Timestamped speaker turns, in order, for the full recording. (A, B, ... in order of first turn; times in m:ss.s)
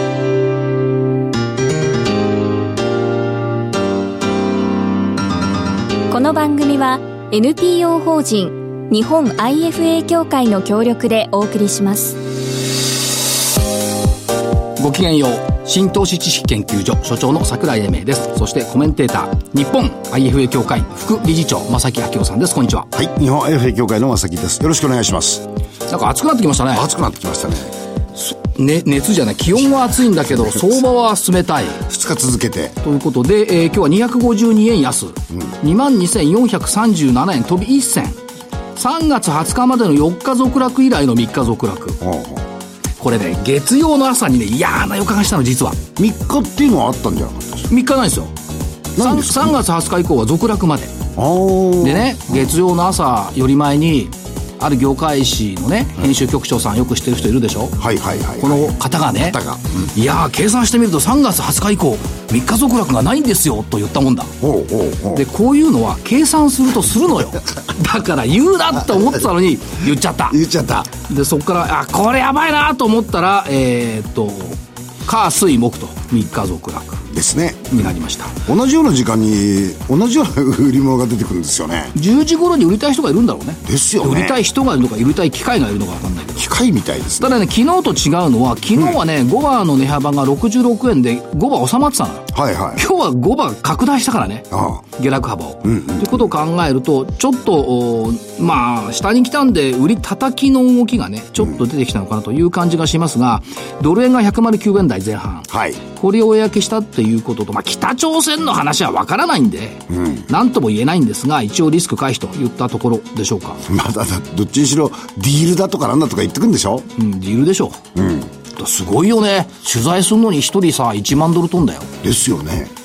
0:06.1-0:12.2 A
0:14.8-0:22.9 B
0:22.9-0:25.5 C
0:25.9-0:26.9 B
0:26.7-0:27.7 C
0:28.1-0:31.8 B
0:31.8-0:32.8 C
0:32.8-0:38.2 B
0:38.7-0:42.0 B
0:42.0-0:42.5 C
0:43.0-0:45.8 B
0:46.0-0:47.7 C
0:47.7-0:48.3 B
0:49.0-0:49.6 C
0:49.0-0:51.0 B
0:51.1-0:52.4 C
0:51.8-0:57.8 B
0:57.8-0:59.9 C
0:58.4-0:59.4 B
0:59.9-1:04.3 B
1:04.4-1:05.2 C
1:05.1-1:10.4 B
1:10.3-1:10.9 C
1:10.9-1:17.1 B
1:17.1-1:17.9 C
1:17.7-1:18.4 B
1:18.4-1:21.9 C
1:21.9-1:26.5 B
1:23.6-1:24.4 C
1:26.4-1:27.4 C
1:27.2-1:53.6 B
1:32.3-1:32.8 C
1:34.5-1:34.8 C
1:35.6-1:36.3 C
1:45.5-1:45.8 C
1:49.9-1:50.2 C
1:53.6-1:56.9 C
1:56.9-1:57.8 B
1:57.9-1:58.3 C
1:58.5-2:01.9 B
2:02.0-2:02.7 C